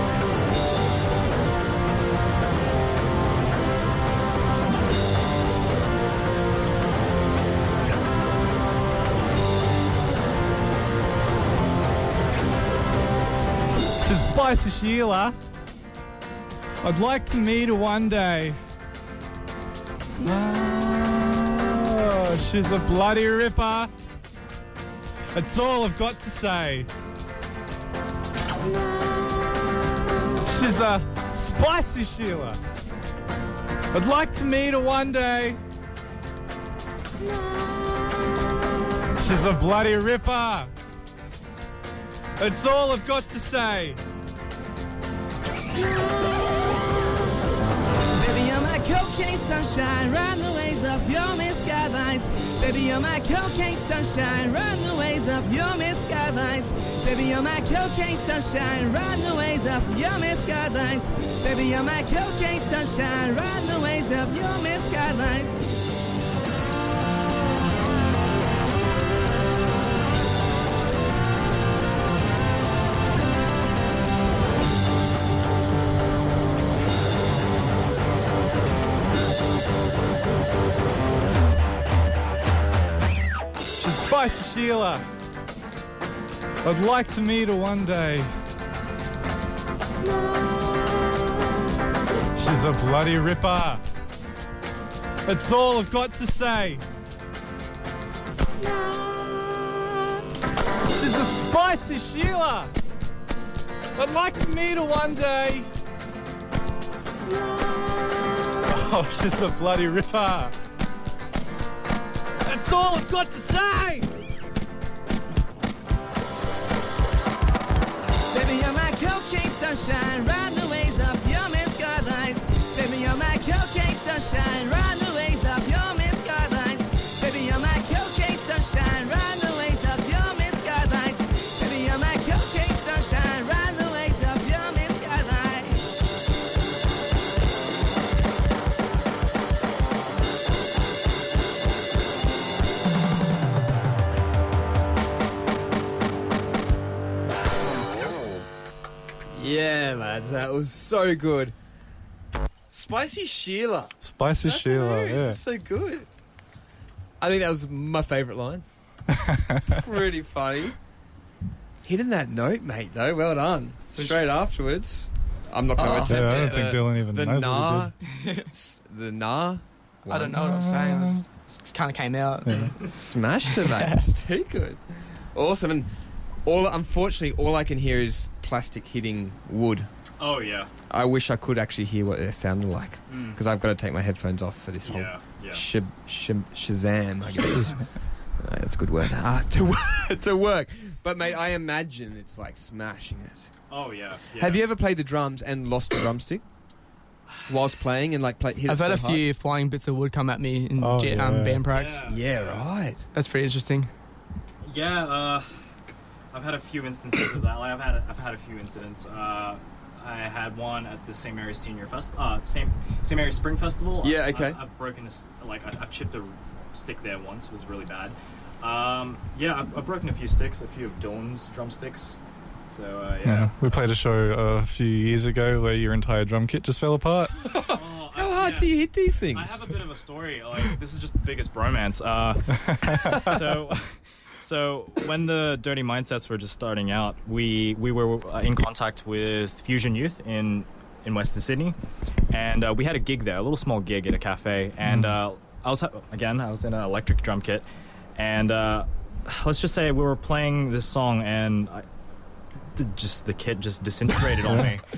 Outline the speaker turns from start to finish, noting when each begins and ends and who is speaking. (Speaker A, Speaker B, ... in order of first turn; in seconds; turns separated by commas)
Speaker A: 14.0-15.4, Speaker A: 16.8-18.6, Speaker A: 20.2-23.9, Speaker A: 25.3-26.9, Speaker A: 30.4-32.6, Speaker A: 33.9-35.6, Speaker A: 37.2-38.1, Speaker A: 39.1-40.7, Speaker A: 42.4-44.0, Speaker B: 48.1-65.6, Speaker A: 83.8-85.0, Speaker A: 86.6-88.3, Speaker A: 90.2-90.9, Speaker A: 92.3-93.8, Speaker A: 95.3-96.8, Speaker A: 98.6-100.2, Speaker A: 100.9-102.7, Speaker A: 104.0-105.7, Speaker A: 107.5-110.5, Speaker A: 112.5-114.1, Speaker B: 118.3-135.9, Speaker C: 149.3-151.6, Speaker C: 152.7-156.1, Speaker A: 154.0-155.4, Speaker C: 157.2-158.7, Speaker A: 159.1-159.8, Speaker C: 159.7-160.8, Speaker C: 161.8-170.4, Speaker D: 163.9-164.2, Speaker D: 165.8-166.6, Speaker A: 166.1-167.9, Speaker D: 168.1-168.5, Speaker D: 170.1-172.9, Speaker A: 170.4-171.2, Speaker A: 172.4-172.7, Speaker C: 172.9-175.9, Speaker D: 173.5-174.0, Speaker C: 176.4-179.9, Speaker E: 180.2-180.7, Speaker C: 180.9-187.8, Speaker E: 183.1-183.4, Speaker E: 184.8-185.7, Speaker C: 188.4-193.5, Speaker E: 193.7-194.6, Speaker C: 194.3-196.4, Speaker C: 197.5-199.2, Speaker D: 198.7-202.1, Speaker A: 200.8-201.7, Speaker E: 201.7-202.6, Speaker C: 202.1-203.1, Speaker D: 203.1-203.9, Speaker E: 204.6-205.5, Speaker E: 206.3-223.8, Speaker C: 214.0-214.6, Speaker A: 223.2-227.5, Speaker C: 227.4-229.7, Speaker E: 227.6-228.8, Speaker E: 229.3-241.8, Speaker A: 232.6-233.3, Speaker E: 242.3-251.8, Speaker A: 244.8-245.2, Speaker E: 252.8-254.8, Speaker A: 254.5-254.7